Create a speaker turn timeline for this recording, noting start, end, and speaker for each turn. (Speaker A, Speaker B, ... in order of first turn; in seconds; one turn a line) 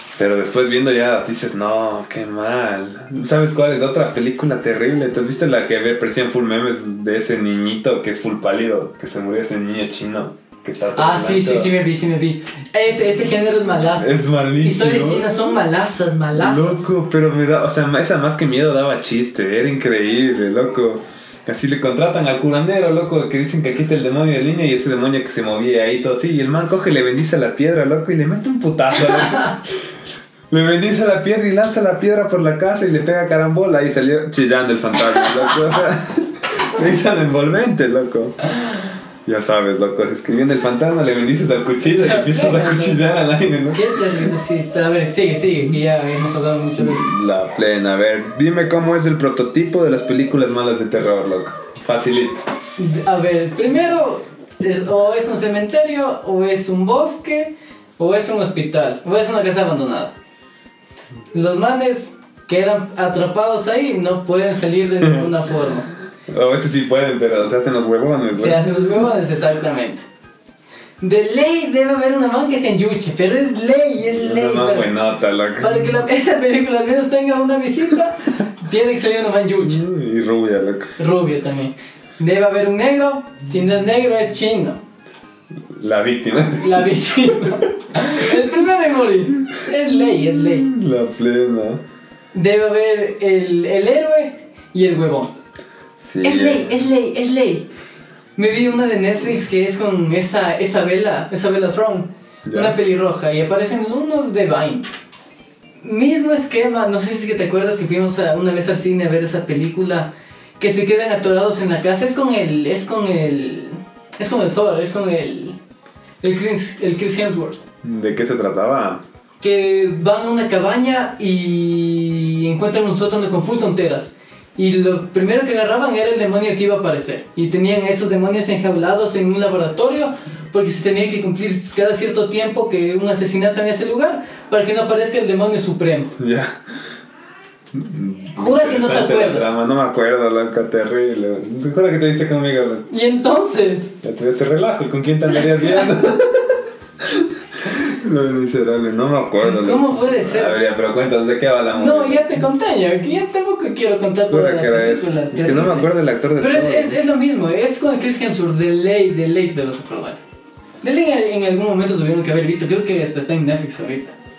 Speaker A: 0.2-11.7
Speaker B: 11.0-16.9
Speaker A: 14.0-15.4
Speaker A: 16.3-29.6
Speaker A: 30.5-38.5
Speaker A: 39.2-44.0
Speaker B: 41.8-43.0
Speaker B: 43.7-47.1
Speaker A: 46.8-52.4
Speaker B: 52.8-60.1
Speaker B: 61.3-65.9
Speaker A: 66.3-68.9
Speaker B: 68.3-70.0
Speaker B: 71.0-74.9
Speaker A: 74.2-75.9
Speaker B: 75.6-79.8
Speaker A: 79.6-81.0
Speaker B: 81.0-84.8
Speaker A: 85.7-86.9
Speaker B: 86.6-90.7
Speaker A: 90.3-91.8
Speaker B: 92.3-95.3
Speaker A: 96.0-96.8
Speaker B: 96.2-97.7
Speaker B: 98.4-104.8
Speaker A: 102.5-102.8
Speaker B: 105.8-115.6
Speaker B: 116.2-117.6
Speaker A: 117.8-119.0
Speaker B: 119.4-136.1
Speaker A: 136.2-136.6
Speaker A: 137.7-142.9
Speaker B: 138.4-139.5
Speaker B: 142.9-144.0
Speaker A: 144.0-152.2
Speaker B: 149.4-150.6
Speaker B: 151.7-160.2
Speaker A: 154.3-156.9
Speaker B: 160.8-164.2